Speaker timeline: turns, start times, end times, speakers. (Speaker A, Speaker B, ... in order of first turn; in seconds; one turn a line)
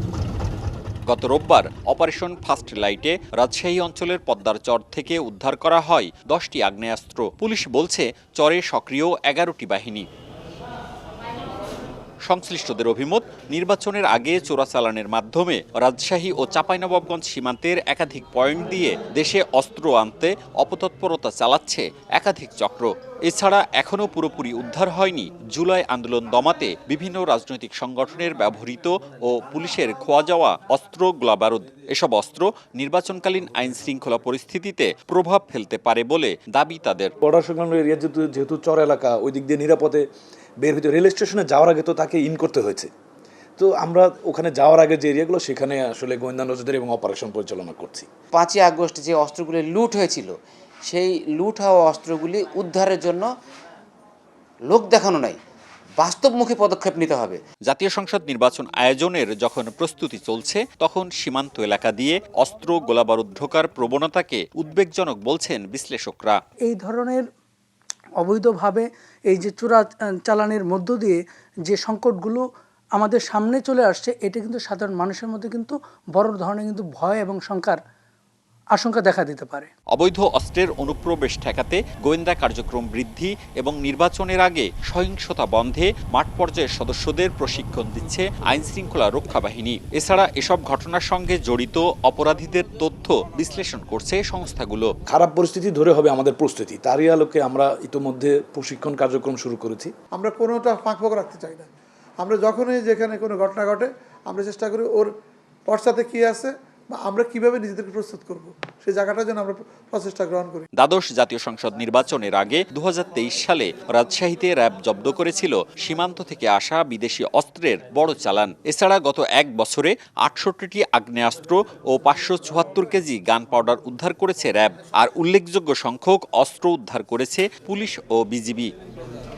Speaker A: 1.1-10.0
Speaker A: 12.3-37.1
Speaker B: 37.2-40.0
Speaker B: 40.6-42.9
Speaker B: 43.6-48.1
Speaker C: 48.3-53.3
Speaker C: 54.7-55.4
Speaker C: 56.0-57.4
Speaker A: 57.7-66.2
Speaker D: 66.7-67.2
Speaker D: 68.2-72.4
Speaker D: 73.0-77.8
Speaker D: 78.8-79.7
Speaker A: 80.0-94.9
Speaker B: 95.1-99.9
Speaker E: 100.2-101.7
Speaker E: 102.2-105.1
Speaker E: 105.7-110.7
Speaker A: 110.8-128.6